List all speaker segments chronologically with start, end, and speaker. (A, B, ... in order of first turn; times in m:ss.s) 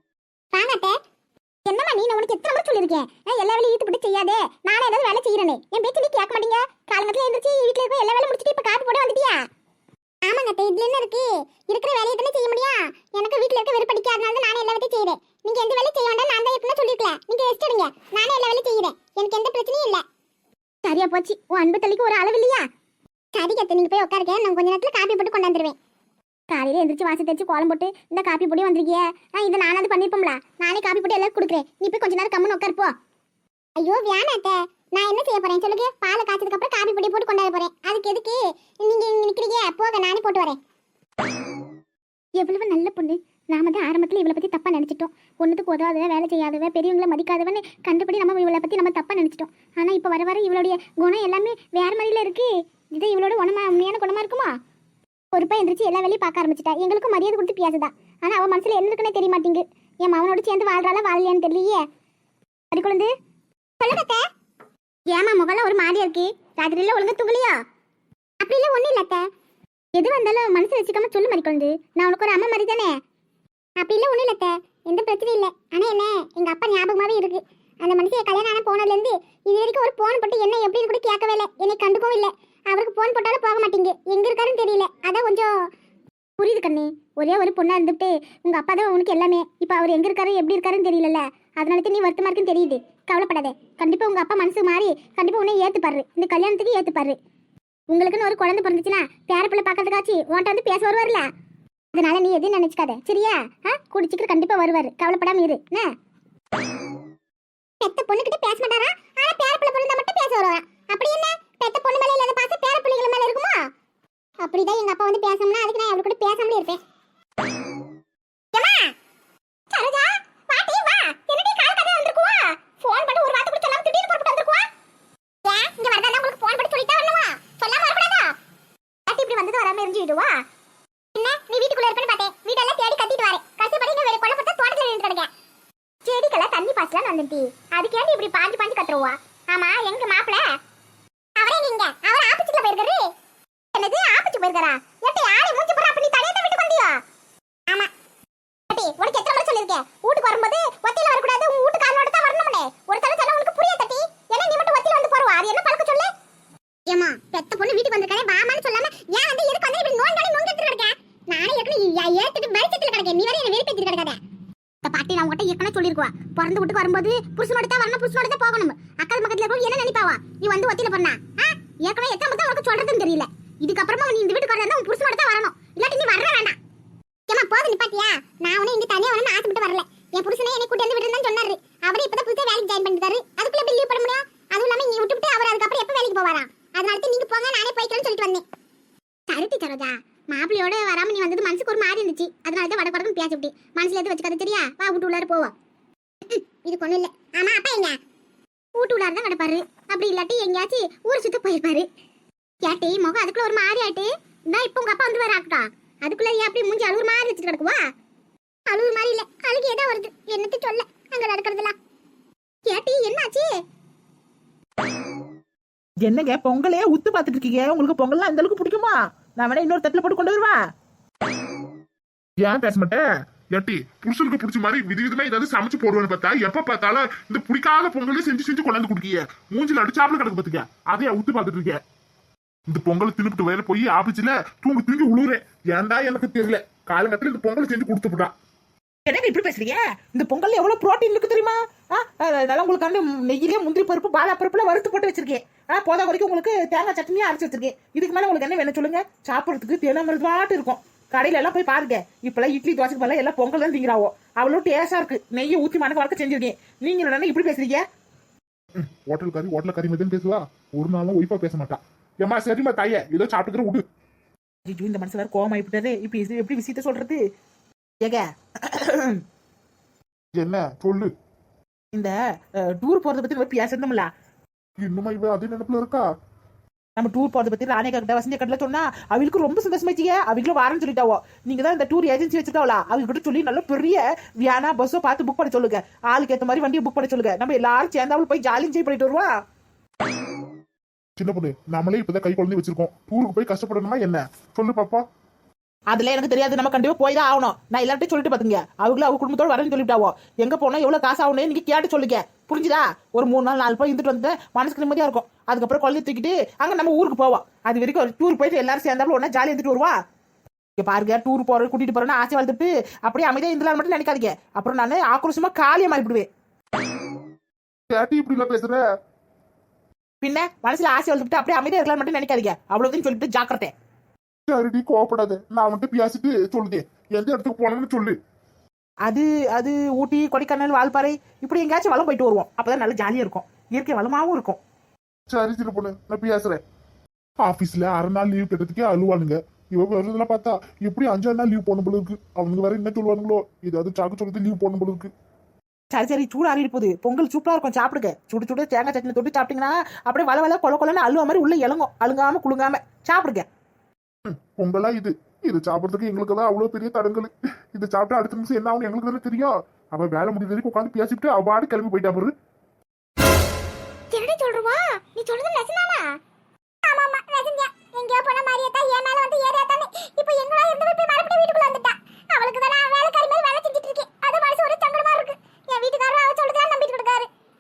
0:00.5-0:01.0 A
0:01.6-0:09.4 A
0:10.2-0:20.0 A
0:20.8-0:22.7 A
0:23.3-0:25.8 A
0:26.5-0:32.9 A
0:33.8-0:40.6 A
0:42.4-0:54.6 A
0:55.3-1:01.8 A
1:02.7-1:03.1 A
1:03.8-1:04.2 A
1:05.1-1:07.6 A
1:08.4-1:09.3 A
1:09.9-1:13.0 A
1:13.8-1:25.5 A
1:26.4-1:37.2 A
1:37.9-1:41.3 A
1:41.9-1:45.9 A
1:47.8-1:53.7 A
1:54.4-1:56.8 A
1:58.5-1:58.9 A
1:59.7-2:04.7 A
2:05.4-2:08.3 A
2:09.1-2:10.4 A
2:11.2-2:15.3 A
2:16.0-2:20.6 A
2:21.4-2:23.1 A
2:23.7-2:27.0 A
2:28.7-2:36.1 A
2:36.9-2:44.2 A
2:44.8-2:56.6 A
2:57.3-3:08.4 A
3:09.3-3:15.5 A
3:16.3-3:18.0 A
3:18.8-3:21.9 A
3:22.6-3:27.8 A
3:28.7-3:31.8 A
3:32.7-3:33.5 A
3:36.0-3:40.6 B
3:42.4-3:43.0 B
3:43.5-3:51.8 C
3:52.7-3:58.3 C
3:59.1-4:17.8 B
4:18.8-4:23.8 C
4:24.7-4:27.2 B
4:28.0-4:29.2 B
4:30.4-4:31.1 C
4:31.9-4:34.1 B
4:34.8-4:36.1 C
4:37.0-4:49.3 B
4:51.2-4:55.0 C
4:55.9-5:10.0 B
5:10.8-5:16.3 B
5:17.9-5:18.8 C
5:20.2-5:23.7 B
5:24.5-5:28.2 C
5:29.0-5:34.6 B
5:35.3-5:36.6 C
5:37.4-5:45.1 C
5:45.9-5:53.5 B
5:54.3-6:02.3 C
6:04.1-6:06.2 A
6:06.8-6:17.3 A